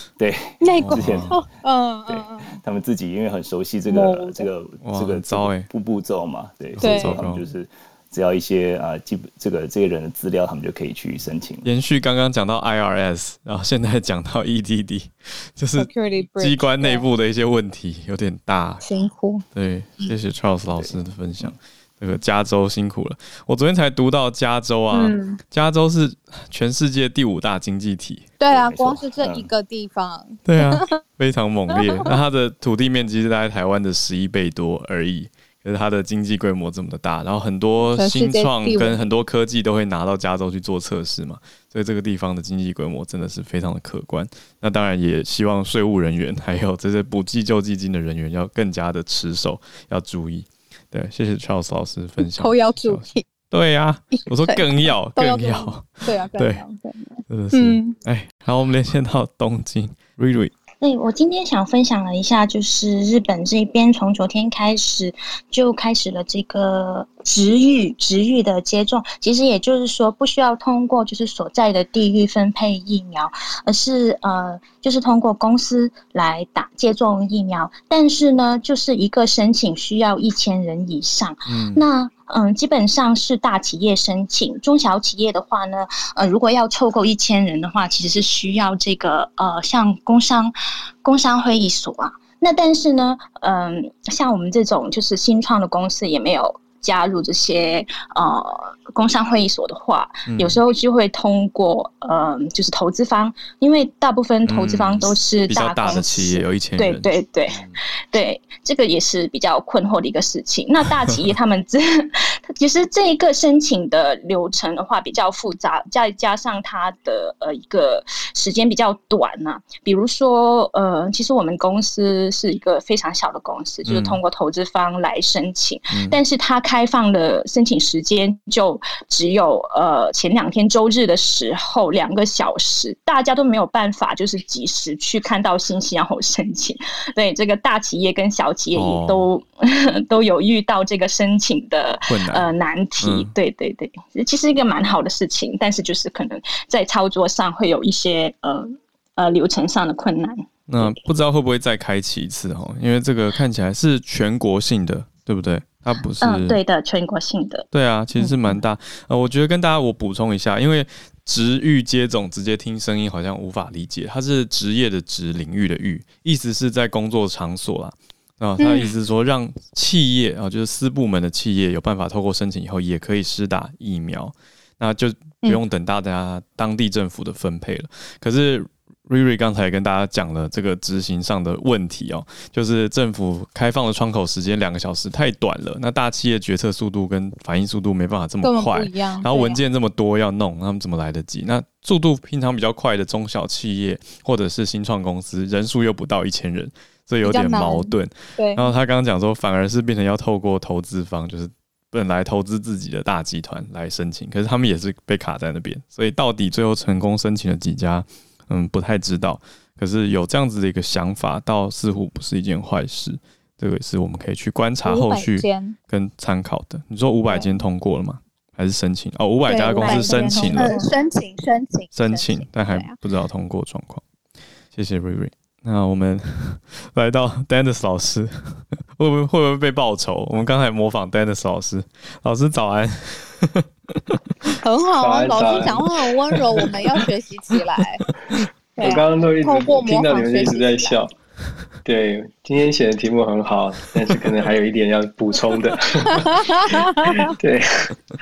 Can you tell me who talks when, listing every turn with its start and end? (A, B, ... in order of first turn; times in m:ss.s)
0:00.2-0:01.4 A
0:00.6-0:02.5 B
0:00.8-0:01.3 C
0:02.1-0:11.7 A
0:03.9-0:04.5 B
0:04.8-0:05.7 C
0:06.8-0:07.4 C
0:06.8-0:07.2 B
0:11.6-0:18.8 C
0:15.8-0:17.1 B
0:18.8-0:19.4 B
0:19.5-0:28.3 C
0:20.7-0:21.5 A
0:24.9-0:25.4 B
0:28.4-0:31.0 B
0:28.5-0:29.5 A
0:30.5-0:56.6 C
0:31.7-0:32.2 B
0:37.9-0:39.0 B
0:52.2-0:53.3 B
0:54.1-0:58.0 B
0:57.3-1:00.5 C
1:00.8-1:30.5 D
1:21.5-1:21.8 C
1:31.0-1:45.6 D
1:40.3-1:40.6 C
1:44.4-1:47.8 C
1:48.5-1:49.0 D
1:50.9-1:51.7 D
1:52.6-1:55.4 D
1:56.3-1:58.0 D
1:58.5-2:05.6 D
2:03.8-2:04.2 C
2:05.9-2:06.2 C
2:06.1-2:12.8 D
2:13.9-2:14.8 D
2:18.1-2:19.0 D
2:18.7-2:19.3 C
2:20.1-2:28.4 D
2:22.2-2:22.5 C
2:23.0-2:23.3 C
2:29.3-2:30.1 D
2:30.7-2:36.6 C
2:36.2-2:37.6 D
2:37.7-3:40.8 C
2:48.6-2:48.9 B
3:08.4-3:09.6 B
3:17.2-3:18.7 B
3:34.8-3:35.8 B
3:37.3-3:37.6 B
3:39.4-3:43.0 B
3:41.9-3:44.0 C
3:44.7-3:54.2 C
3:54.6-3:58.0 B
3:55.0-3:57.1 E
3:58.8-4:01.0 B
3:58.8-4:01.1 E
4:01.8-4:07.9 E